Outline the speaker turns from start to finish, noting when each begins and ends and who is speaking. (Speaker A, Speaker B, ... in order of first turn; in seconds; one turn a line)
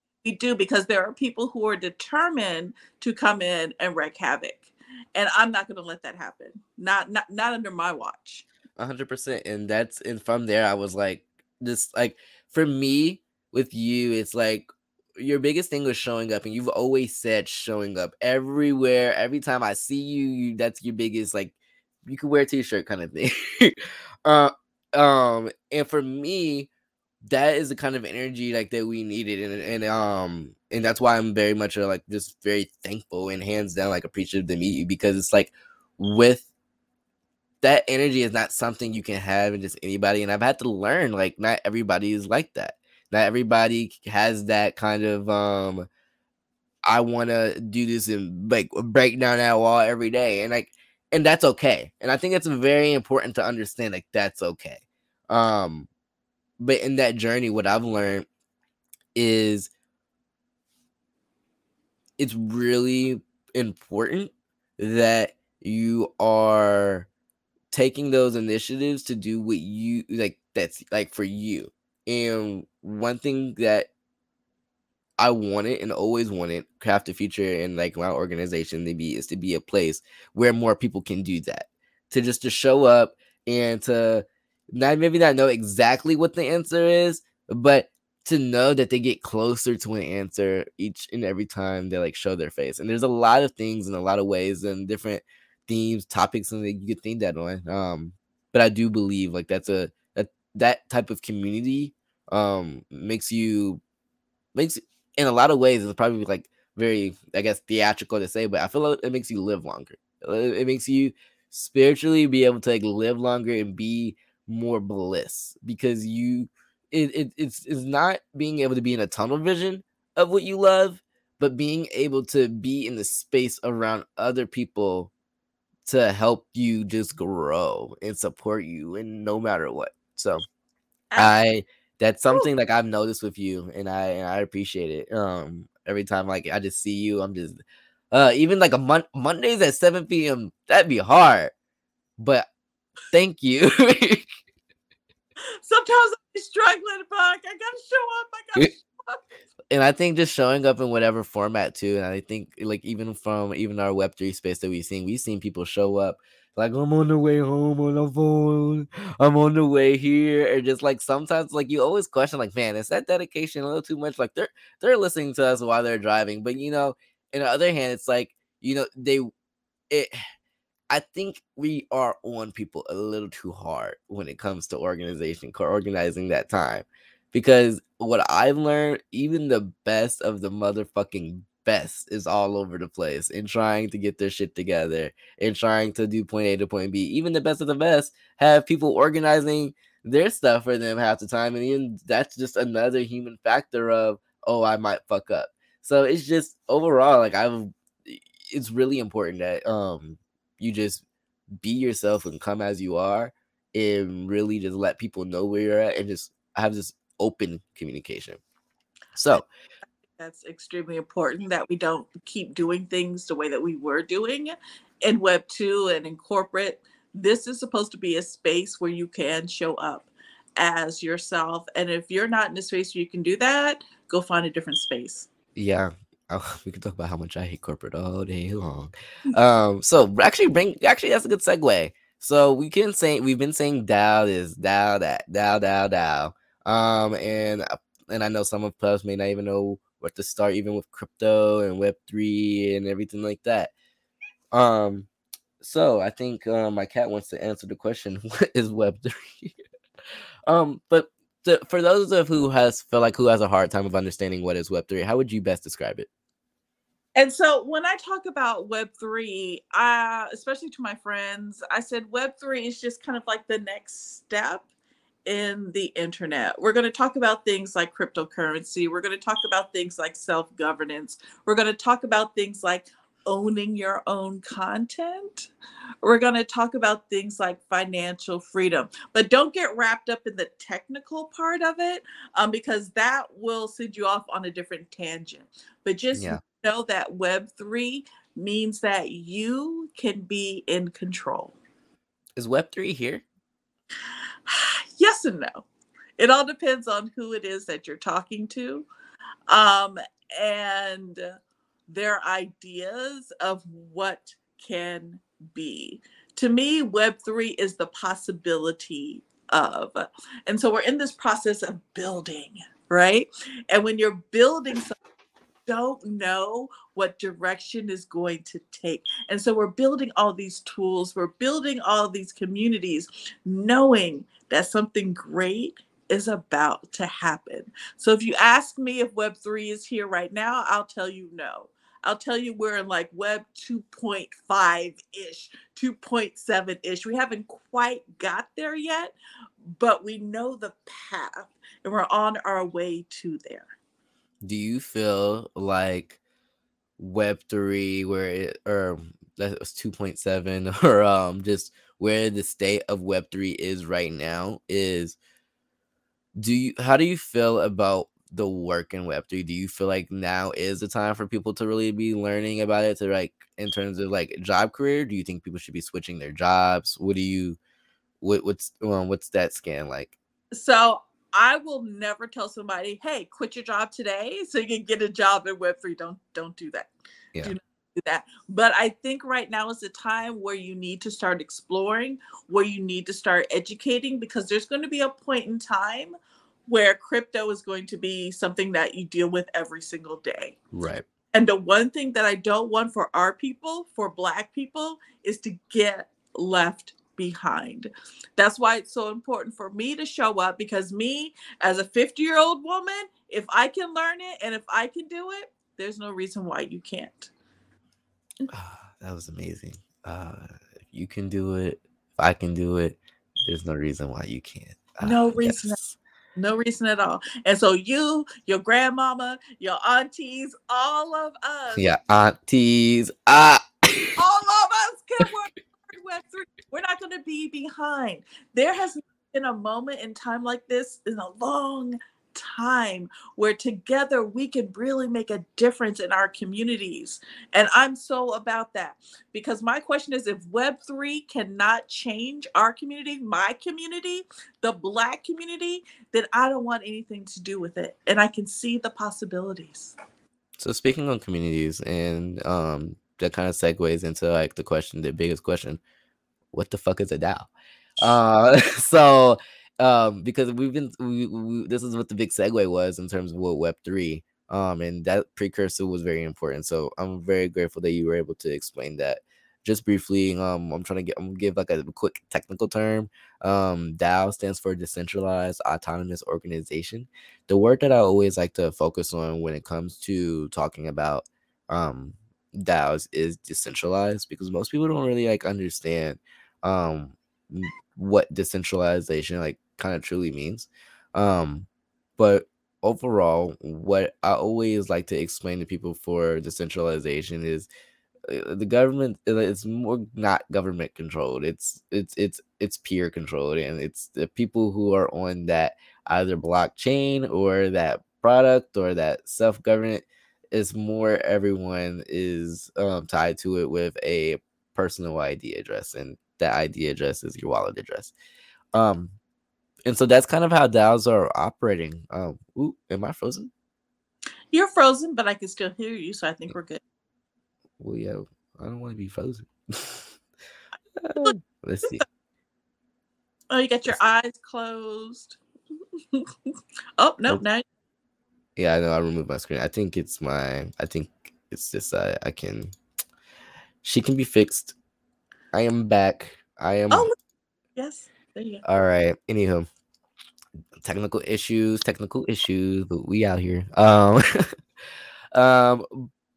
Speaker A: 0.2-8.4
Speaker B: 8.8-26.7
Speaker B: 27.2-36.5
Speaker B: 37.6-45.9
Speaker B: 46.8-55.9
Speaker B: 56.6-58.3
Speaker B: 59.1-59.7
Speaker B: 62.2-67.1
Speaker B: 67.7-73.9
Speaker B: 75.2-103.8
Speaker B: 104.5-125.1
Speaker B: 125.8-130.4
Speaker B: 131.2-137.6
Speaker B: 138.1-141.5
Speaker B: 142.2-142.5
Speaker B: 143.1-144.3
Speaker A: 145.6-149.2
Speaker B: 149.7-169.3
Speaker B: 169.9-170.1
Speaker B: 170.9-201.0
Speaker B: 201.6-208.4
Speaker B: 209.2-209.4
Speaker A: 210.2-225.3
Speaker B: 225.5-243.7
Speaker B: 244.5-245.1
Speaker B: 245.6-249.6
Speaker B: 250.5-256.1
Speaker A: 257.1-264.6
Speaker A: 265.2-275.5
Speaker A: 276.0-291.6
Speaker B: 286.1-286.4
Speaker B: 292.4-293.2
Speaker A: 294.4-295.6
Speaker A: 296.2-298.9
Speaker A: 299.5-301.2
Speaker A: 301.9-314.9
Speaker A: 315.6-339.1
Speaker A: 339.8-343.7
Speaker B: 344.4-346.2
Speaker B: 347.0-355.2
Speaker B: 356.4-367.6
Speaker B: 368.2-370.1
Speaker A: 370.5-386.1
Speaker A: 386.7-390.6
Speaker B: 390.7-391.0
Speaker A: 391.3-407.3
Speaker B: 408.5-416.0
Speaker A: 415.0-415.8
Speaker A: 416.4-421.9
Speaker B: 421.7-424.2
Speaker A: 424.2-449.9
Speaker B: 450.6-455.8
Speaker B: 456.5-497.7
Speaker B: 498.3-518.1
Speaker B: 518.7-519.1
Speaker B: 519.8-523.5
Speaker A: 524.5-526.8
Speaker B: 527.8-530.1
Speaker B: 531.0-532.0
Speaker A: 533.5-535.4
Speaker A: 537.0-537.6
Speaker B: 538.6-542.7
Speaker B: 543.8-544.7
Speaker B: 545.5-547.1
Speaker A: 547.7-548.6
Speaker B: 548.6-549.7
Speaker B: 550.8-554.5
Speaker B: 555.3-556.1